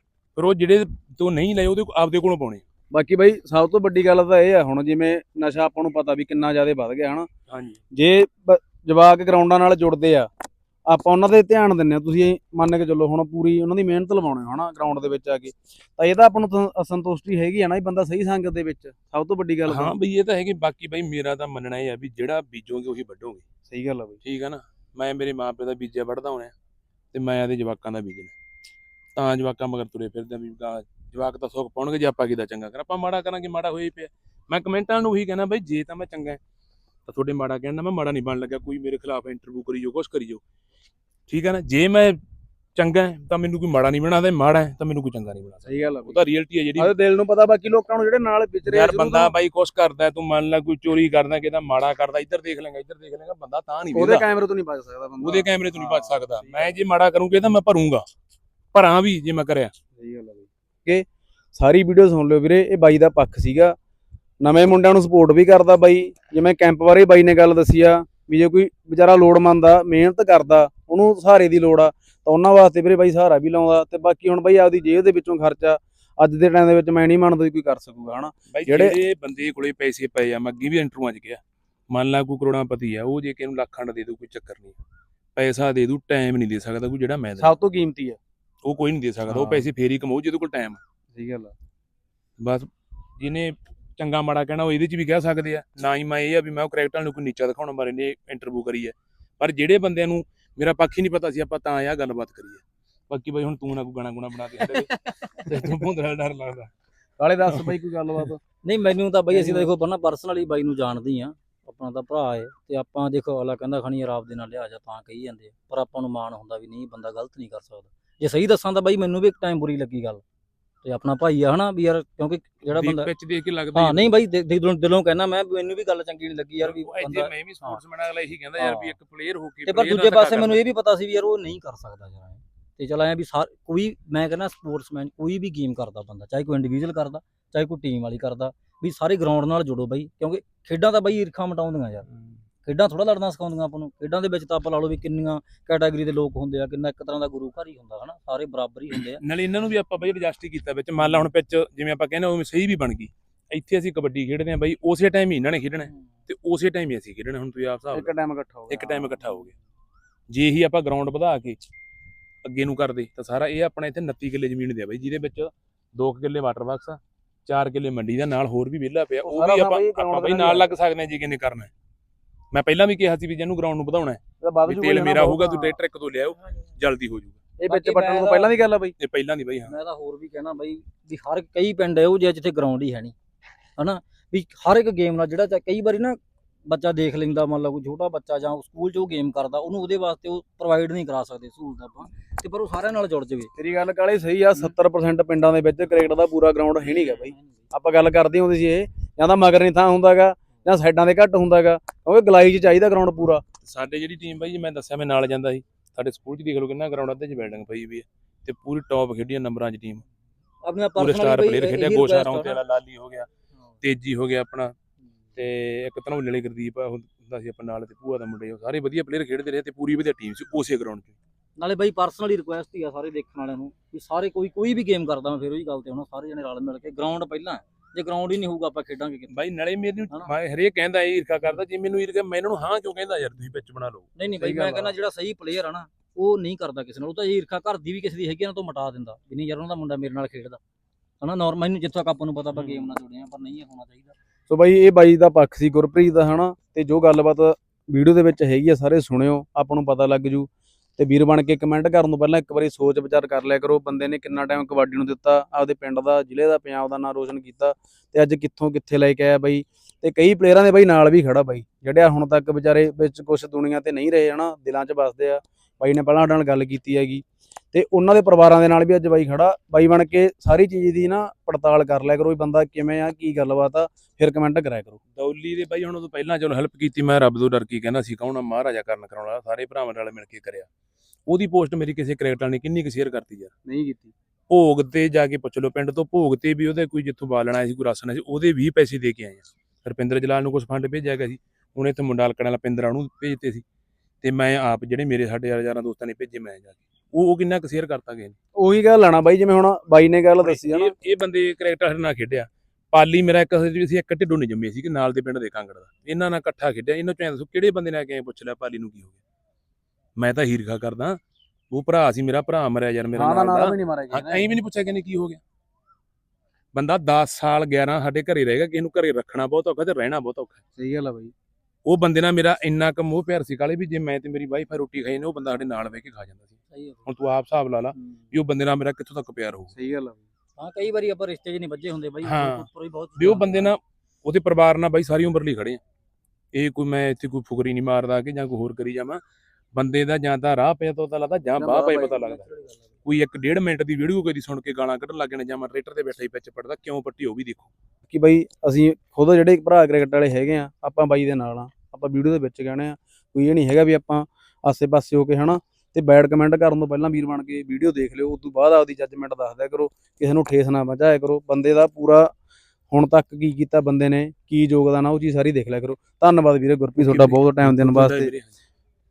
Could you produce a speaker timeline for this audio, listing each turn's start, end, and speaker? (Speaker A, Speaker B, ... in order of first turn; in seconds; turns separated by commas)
Speaker A: 0.4-2.6, Speaker B: 2.9-7.3, Speaker A: 7.5-7.8, Speaker B: 7.9-10.3, Speaker B: 10.9-19.9, Speaker A: 19.7-23.4, Speaker B: 23.7-24.2, Speaker A: 24.2-26.5, Speaker A: 27.1-28.3, Speaker A: 29.2-36.4, Speaker A: 37.1-40.4, Speaker A: 41.3-42.2, Speaker A: 42.8-46.9, Speaker B: 45.7-46.2, Speaker B: 46.8-49.3, Speaker A: 48.7-54.3, Speaker B: 53.9-56.8, Speaker A: 55.2-58.0, Speaker A: 58.7-59.7, Speaker B: 60.0-63.8, Speaker B: 64.4-79.0, Speaker A: 78.5-84.8, Speaker A: 85.3-87.5, Speaker B: 87.4-88.2, Speaker A: 88.7-90.8, Speaker B: 89.3-89.7, Speaker B: 91.1-91.5, Speaker A: 92.4-106.7, Speaker B: 107.2-108.4, Speaker C: 108.6-120.2, Speaker B: 109.3-109.7, Speaker C: 120.8-123.1, Speaker A: 122.7-124.1, Speaker C: 123.7-127.8, Speaker A: 126.6-130.6, Speaker C: 128.6-128.9, Speaker C: 129.7-142.1, Speaker C: 142.6-149.2, Speaker A: 148.9-158.1, Speaker B: 157.9-159.4, Speaker A: 158.7-159.5, Speaker A: 160.3-161.6, Speaker A: 162.4-171.7, Speaker B: 169.2-170.7, Speaker A: 172.5-177.4, Speaker B: 174.4-175.8, Speaker B: 177.6-178.9, Speaker C: 177.7-178.6, Speaker A: 179.0-179.7, Speaker C: 179.7-183.2, Speaker C: 183.8-193.5, Speaker B: 193.6-203.4, Speaker C: 196.8-197.4, Speaker A: 203.6-210.0, Speaker C: 210.6-212.6, Speaker A: 211.0-213.3, Speaker A: 213.8-214.7, Speaker A: 215.3-221.2, Speaker C: 221.6-229.4, Speaker A: 229.3-234.1, Speaker C: 234.2-240.6, Speaker B: 234.4-234.9, Speaker C: 241.2-244.1, Speaker B: 244.5-275.0, Speaker A: 275.1-280.7, Speaker A: 281.3-283.5, Speaker B: 283.7-284.1, Speaker A: 284.5-293.6, Speaker A: 294.2-298.4, Speaker B: 298.6-300.9, Speaker A: 300.4-309.2, Speaker A: 310.2-311.2, Speaker A: 311.7-315.4, Speaker B: 313.1-314.5, Speaker A: 316.7-320.6, Speaker B: 320.8-321.3, Speaker A: 321.9-329.7, Speaker C: 326.7-327.0, Speaker B: 329.8-330.2, Speaker C: 330.6-333.7, Speaker A: 332.2-335.8, Speaker A: 336.5-339.2, Speaker A: 339.8-342.5, Speaker B: 341.6-342.3, Speaker C: 341.6-342.6, Speaker A: 343.0-347.7, Speaker B: 348.1-362.3, Speaker B: 362.9-368.3, Speaker A: 367.0-368.6